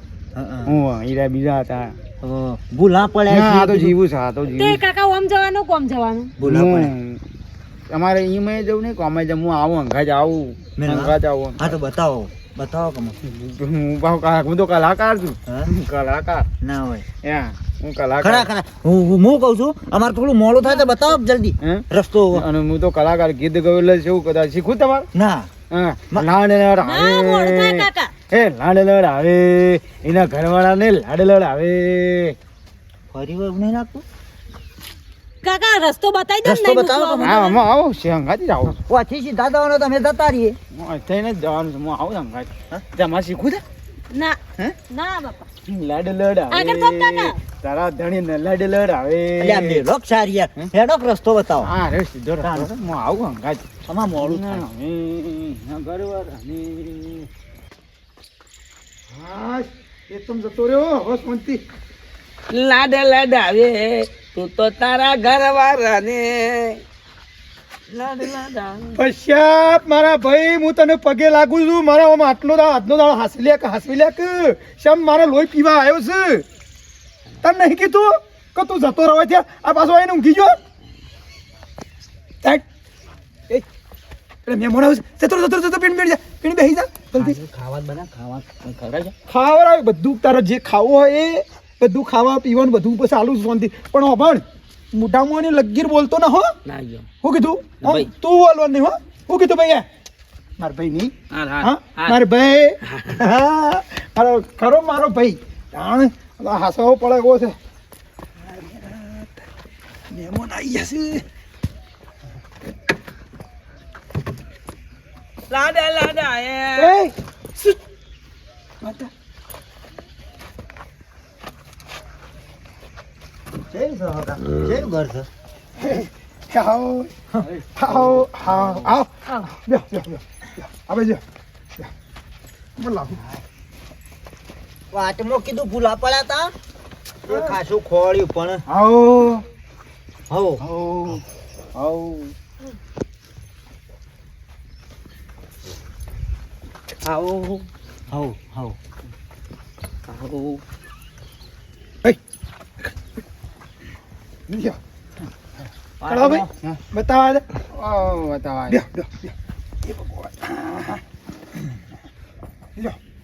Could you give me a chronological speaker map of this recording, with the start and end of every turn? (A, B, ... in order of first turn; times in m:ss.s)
0:00.3-0:00.7 A
0:00.6-0:01.9 B
0:02.2-0:04.0 A
0:03.3-0:04.8 B
0:04.5-0:06.3 C
0:06.4-0:06.9 A
0:06.4-0:07.2 B
0:07.9-0:11.7 B
0:10.8-0:13.2 A
0:13.2-0:16.5 B
0:16.6-0:17.0 A
0:17.2-0:18.5 B
0:18.2-0:22.4 A
0:21.6-0:25.1 B
0:25.1-0:25.5 A
0:25.7-0:32.3 B
0:26.8-0:28.1 C
0:33.1-0:34.0 A
0:35.4-0:37.6 C
0:36.4-0:37.4 A
0:37.2-0:38.8 B
0:38.9-0:40.6 A
0:40.7-0:43.6 B
0:44.1-0:44.4 C
0:44.9-0:45.5 C
0:45.7-0:49.8 B
0:46.5-0:47.4 C
0:49.4-0:51.7 A
0:51.6-0:53.6 B
0:52.4-0:52.7 A
0:53.9-0:54.6 A
0:54.2-0:57.3 B
0:59.1-1:01.6 D
1:02.5-1:06.8 E
1:07.9-1:09.0 E
1:08.9-1:16.4 D
1:17.4-1:20.5 D
1:24.4-1:27.4 D
1:27.2-1:29.1 E
1:29.3-1:36.5 D
1:36.6-1:37.0 E
1:37.2-1:39.8 D
1:37.8-1:38.1 E
1:40.6-1:47.6 D
1:41.3-1:42.2 E
1:42.9-1:43.2 E
1:48.4-1:49.4 D
1:50.1-1:51.2 D
1:55.5-1:56.9 E
1:56.8-1:57.8 D
1:58.8-1:59.1 D
2:03.7-2:05.3 A
2:05.8-2:07.1 D
2:07.7-2:11.2 D
2:12.8-2:13.2 D
2:14.9-2:16.5 A
2:17.2-2:18.6 A
2:17.3-2:17.6 D
2:18.7-2:19.4 D
2:20.3-2:20.6 A
2:20.7-2:21.2 B
2:21.7-2:22.3 B
2:27.0-2:27.6 E
2:28.1-2:28.8 A
2:30.1-2:30.6 E
2:34.5-2:34.8 D
2:36.0-2:36.5 A
2:36.1-2:37.4 D
2:37.7-2:38.8 B
2:38.7-2:39.3 D
2:39.8-2:41.0 D